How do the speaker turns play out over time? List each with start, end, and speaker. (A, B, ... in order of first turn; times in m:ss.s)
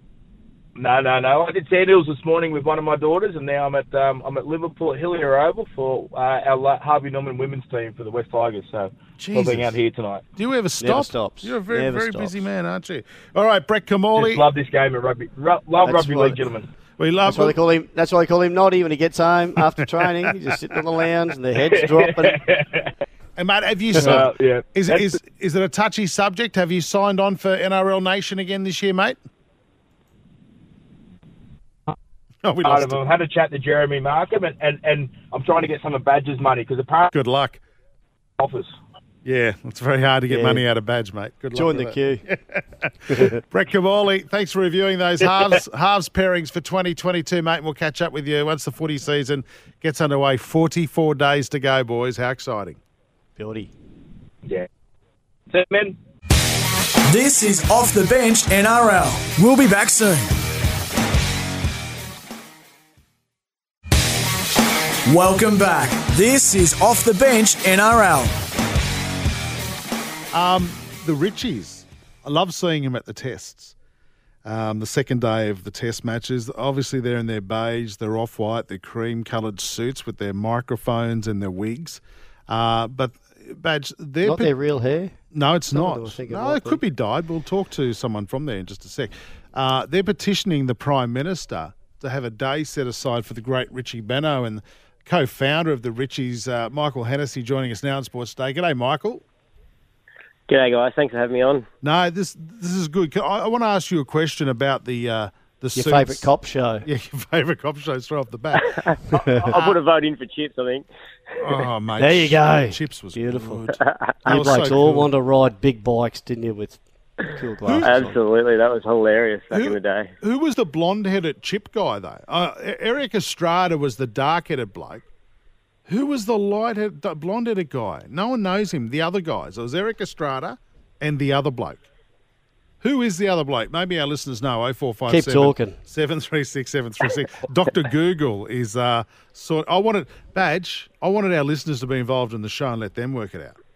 0:00.8-0:10.2 A
0:09.2-0:09.7 B
0:10.4-0:14.4 B
0:10.8-0:12.4 C
0:14.2-0:16.7 A
0:15.8-0:16.4 C
0:17.0-0:17.6 B
0:17.3-0:22.4 C
0:21.7-0:22.9 A
0:23.4-0:29.2 B
0:24.0-0:25.1 A
0:32.4-0:33.0 B
0:32.6-0:37.1 A
0:37.1-0:37.6 B
0:38.4-0:38.8 A
0:39.2-0:52.8 B
0:40.3-0:40.6 C
0:41.5-0:42.2 C
0:43.1-0:43.4 C
0:53.4-0:53.7 C
0:55.5-0:56.0 A
0:57.1-1:00.3 D
1:05.1-1:08.4 D
1:10.3-1:13.7 B
1:14.4-1:24.5 B
1:24.2-1:25.2 C
1:25.3-1:39.2 B
1:25.7-1:26.8 C
1:40.5-1:41.7 E
1:41.8-1:46.3 B
1:45.8-1:46.9 C
1:46.8-1:49.8 B
1:48.6-1:50.9 E
1:49.2-1:49.5 C
1:51.4-1:55.1 B
1:52.0-1:53.7 C
1:54.2-1:58.2 C
1:57.7-1:58.1 B
1:57.8-2:00.1 E
1:59.5-2:05.1 B
2:05.9-2:11.9 B
2:12.8-2:23.6 B
2:15.1-2:15.8 C